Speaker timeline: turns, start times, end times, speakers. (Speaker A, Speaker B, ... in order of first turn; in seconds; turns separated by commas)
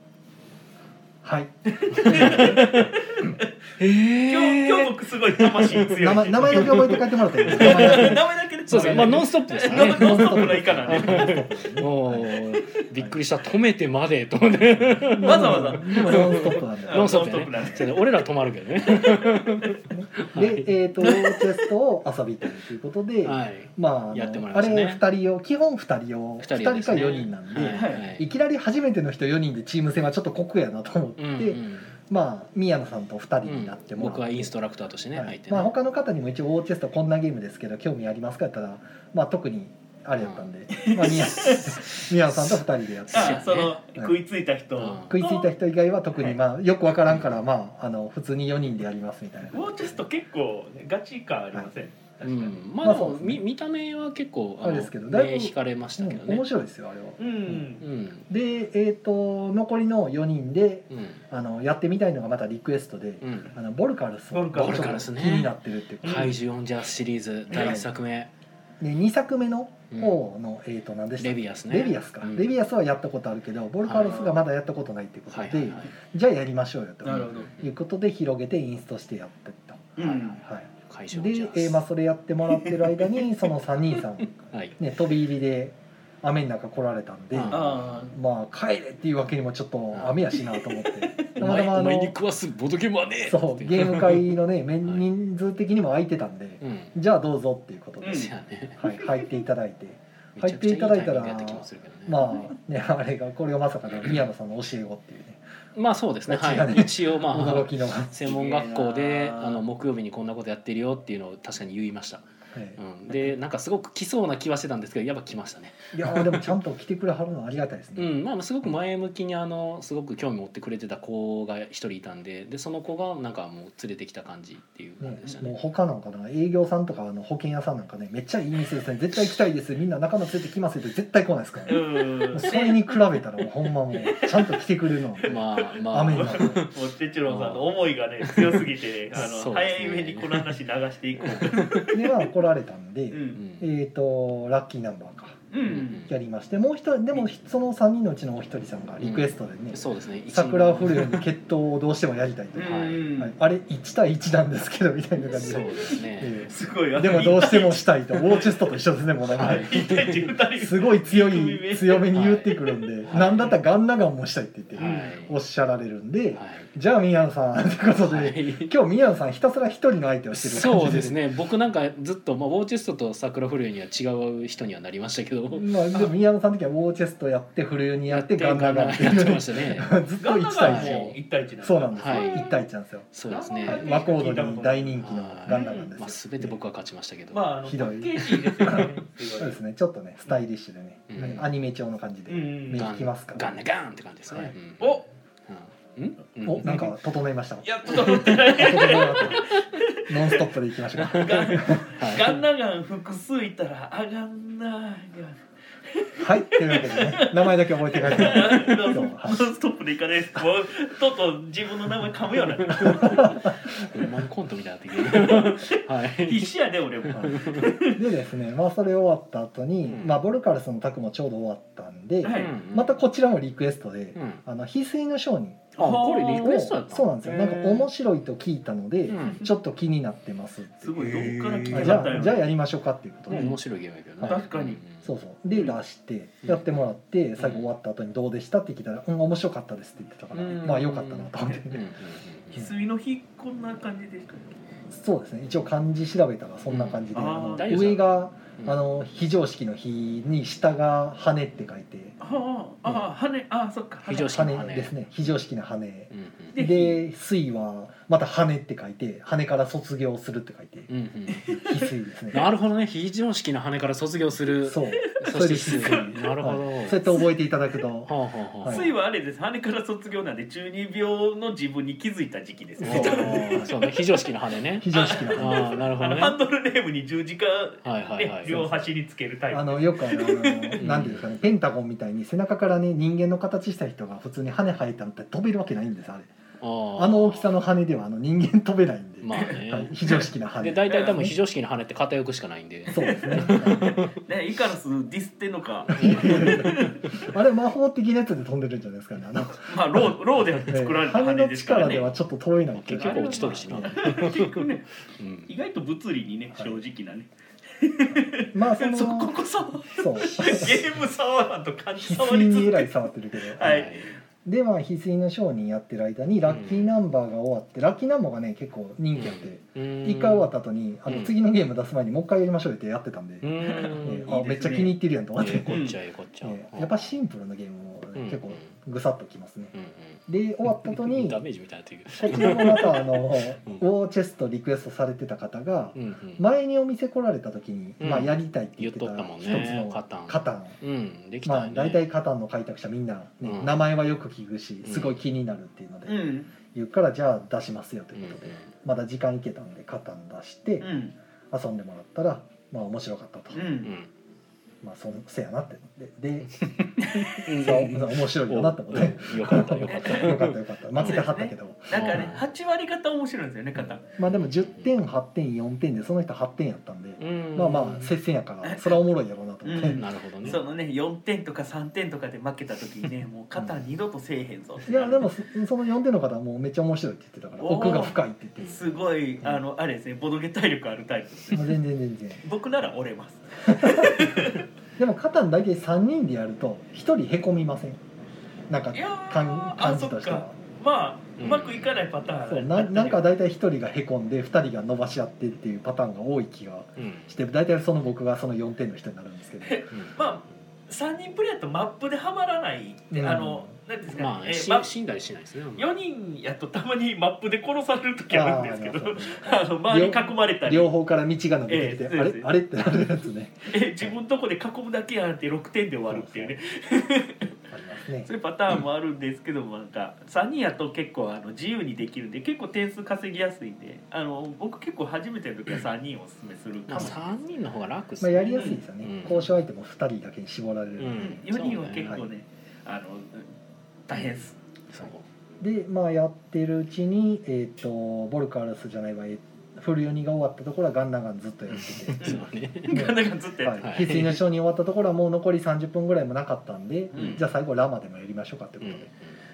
Speaker A: 1.2-3.3, Speaker B: 1.7-3.5, Speaker C: 1.9-3.0, Speaker C: 3.8-21.4, Speaker B: 4.3-11.4, Speaker A: 6.0-12.4, Speaker A: 14.9-17.8, Speaker B: 15.2-18.1, Speaker B: 18.9-19.7, Speaker A: 19.9-34.5, Speaker C: 23.2-25.0, Speaker C: 26.4-28.3, Speaker B: 27.7-28.1, Speaker C: 31.2-31.9, Speaker C: 33.4-35.7, Speaker A: 35.1-44.2, Speaker C: 40.2-40.5, Speaker B: 40.7-41.8, Speaker C: 41.2-43.8, Speaker B: 43.1-45.5, Speaker C: 44.8-45.1, Speaker A: 45.0-50.0, Speaker B: 49.5-52.6, Speaker C: 52.2-56.4, Speaker A: 52.8-53.4, Speaker A: 54.6-57.7, Speaker B: 57.2-57.8, Speaker C: 57.8-58.2, Speaker A: 58.3-66.3, Speaker C: 60.9-61.2, Speaker C: 63.2-63.5, Speaker B: 64.3-65.1, Speaker C: 64.5-68.3, Speaker B: 66.0-66.3, Speaker B: 67.5-67.8, Speaker A: 67.5-67.8, Speaker A: 68.8-92.2, Speaker C: 69.9-70.2, Speaker C: 71.2-72.5, Speaker C: 73.8-74.2, Speaker B: 74.0-74.4, Speaker C: 75.3-75.9, Speaker B: 77.0-77.5, Speaker B: 80.0-80.4, Speaker C: 80.9-81.8, Speaker B: 82.7-83.1, Speaker C: 84.5-84.8, Speaker C: 87.3-88.2, Speaker B: 87.5-88.1, Speaker C: 89.9-90.2, Speaker C: 91.4-95.0, Speaker A: 93.3-105.4, Speaker C: 96.6-96.9, Speaker B: 98.0-98.3, Speaker C: 98.1-98.8, Speaker B: 99.0-99.3, Speaker C: 100.4-102.3, Speaker C: 105.8-112.2, Speaker A: 106.3-108.3, Speaker B: 108.2-109.6, Speaker A: 112.5-113.2, Speaker C: 112.8-116.5, Speaker A: 115.9-118.1, Speaker C: 118.0-125.5, Speaker A: 125.0-136.6, Speaker B: 131.7-133.0, Speaker B: 133.9-134.6, Speaker C: 135.2-136.7, Speaker B: 135.3-142.1, Speaker C: 137.3-137.7, Speaker C: 138.2-140.5, Speaker C: 141.2-142.0, Speaker A: 141.9-145.4, Speaker B: 143.1-143.4, Speaker C: 143.4-143.7, Speaker B: 145.5-146.1, Speaker C: 145.7-146.1, Speaker A: 146.1-159.8, Speaker C: 149.0-151.2, Speaker B: 152.6-153.3, Speaker C: 152.6-153.1, Speaker C: 155.3-156.4, Speaker B: 156.5-158.6, Speaker B: 159.3-162.8, Speaker C: 159.3-160.3, Speaker A: 160.6-171.2, Speaker C: 162.1-163.3, Speaker C: 164.8-165.3, Speaker B: 164.8-165.1, Speaker C: 166.3-166.7, Speaker C: 168.0-168.7, Speaker C: 170.3-176.1, Speaker A: 175.5-183.1, Speaker C: 178.1-179.9, Speaker B: 180.2-182.6, Speaker C: 180.6-181.2, Speaker C: 182.0-182.4, Speaker C: 183.1-183.9, Speaker B: 183.2-185.9, Speaker A: 183.7-186.6, Speaker C: 185.0-187.5, Speaker B: 187.3-189.6, Speaker A: 187.7-193.6, Speaker C: 188.2-188.8, Speaker C: 191.1-191.5, Speaker B: 192.3-192.9, Speaker C: 192.7-196.7, Speaker B: 194.8-195.1, Speaker A: 196.4-197.7, Speaker B: 196.6-196.9, Speaker B: 197.6-200.5, Speaker C: 197.9-199.2, Speaker A: 198.5-199.5, Speaker A: 200.1-201.9, Speaker C: 201.0-202.4, Speaker B: 201.1-205.4, Speaker B: 205.9-213.3, Speaker A: 206.2-209.5, Speaker C: 212.7-216.5, Speaker A: 212.9-214.1, Speaker B: 215.0-218.0, Speaker C: 217.2-217.7, Speaker A: 217.9-233.6, Speaker C: 219.9-220.2, Speaker B: 222.2-222.5, Speaker C: 222.3-223.0, Speaker C: 224.2-224.4, Speaker C: 225.8-227.9, Speaker B: 225.8-226.6, Speaker C: 229.1-229.4, Speaker B: 230.8-232.5, Speaker C: 231.1-232.1, Speaker B: 233.3-233.6, Speaker C: 233.3-235.1, Speaker A: 234.2-241.9, Speaker B: 234.2-234.8, Speaker C: 237.4-237.7, Speaker B: 240.3-240.8, Speaker C: 240.6-242.7, Speaker B: 242.5-244.5, Speaker A: 244.9-252.2, Speaker C: 246.7-248.8, Speaker B: 247.1-247.9, Speaker B: 252.2-254.6, Speaker C: 254.1-254.9, Speaker A: 254.1-260.9, Speaker C: 256.1-256.5, Speaker B: 256.5-257.0, Speaker C: 260.9-261.5, Speaker B: 261.3-261.9, Speaker A: 261.5-262.5, Speaker C: 262.3-267.2, Speaker A: 264.6-268.9, Speaker B: 265.7-266.3, Speaker C: 268.1-268.9, Speaker B: 268.7-274.3, Speaker A: 272.8-273.7, Speaker C: 272.8-276.4, Speaker A: 274.8-275.9, Speaker B: 274.9-280.8, Speaker C: 277.8-278.7, Speaker A: 278.5-278.9, Speaker A: 279.5-286.3, Speaker C: 280.8-281.4, Speaker C: 286.6-287.6, Speaker A: 287.0-291.3, Speaker C: 289.2-294.1, Speaker B: 290.9-291.3, Speaker B: 292.9-297.2, Speaker A: 292.9-293.9, Speaker C: 295.9-296.8, Speaker A: 295.9-304.2, Speaker B: 299.6-302.1, Speaker C: 302.8-304.5, Speaker B: 302.9-304.9, Speaker C: 305.2-305.5, Speaker B: 305.5-312.9, Speaker A: 306.5-306.8, Speaker A: 308.5-309.4, Speaker A: 309.9-310.9, Speaker A: 312.0-313.8, Speaker B: 313.5-314.0, Speaker C: 313.6-314.1, Speaker A: 314.4-325.8, Speaker C: 316.5-316.9, Speaker C: 319.1-320.5, Speaker C: 321.1-321.3, Speaker C: 323.4-324.3, Speaker B: 323.6-325.0, Speaker C: 325.4-327.1, Speaker B: 325.7-326.0, Speaker A: 326.4-329.7, Speaker C: 328.1-328.8, Speaker C: 329.7-333.8, Speaker A: 330.3-331.4, Speaker A: 332.2-340.8, Speaker C: 335.9-336.4, Speaker C: 338.0-342.0, Speaker A: 341.4-350.9, Speaker C: 343.4-343.7, Speaker C: 344.9-345.2, Speaker B: 346.1-346.5, Speaker C: 348.1-348.7, Speaker B: 350.8-351.1, Speaker A: 351.5-353.7, Speaker B: 353.5-353.9, Speaker C: 353.8-354.1, Speaker A: 354.8-356.6, Speaker C: 356.6-361.2, Speaker B: 357.0-357.4, Speaker A: 357.5-362.3, Speaker B: 359.9-360.4, Speaker B: 361.0-364.0, Speaker C: 361.9-362.4, Speaker A: 364.2-370.6, Speaker C: 364.3-364.9, Speaker C: 367.2-368.1, Speaker B: 368.6-369.0, Speaker B: 369.6-375.3, Speaker C: 370.0-370.6, Speaker A: 374.9-379.6, Speaker B: 377.6-381.8, Speaker A: 381.5-382.4, Speaker B: 382.4-384.7, Speaker A: 383.7-384.3, Speaker A: 385.0-388.0, Speaker A: 388.7-390.6, Speaker B: 388.9-393.2, Speaker C: 391.4-392.0, Speaker A: 392.5-399.8, Speaker C: 397.0-397.3, Speaker B: 399.6-404.9, Speaker C: 399.9-400.2, Speaker A: 403.1-403.7, Speaker C: 404.1-405.9, Speaker B: 405.8-410.9, Speaker A: 408.3-414.2, Speaker B: 411.7-412.6, Speaker B: 413.7-417.5, Speaker A: 416.1-416.6, Speaker A: 417.7-418.3, Speaker B: 418.2-427.2, Speaker C: 426.9-429.5, Speaker A: 428.2-431.4, Speaker B: 428.6-428.8, Speaker C: 431.0-432.1, Speaker B: 431.2-433.5, Speaker B: 434.1-434.6, Speaker C: 434.9-435.2, Speaker A: 435.6-449.1, Speaker C: 441.7-443.0, Speaker B: 442.2-444.3, Speaker C: 443.8-444.4, Speaker B: 447.1-447.4, Speaker C: 448.8-449.4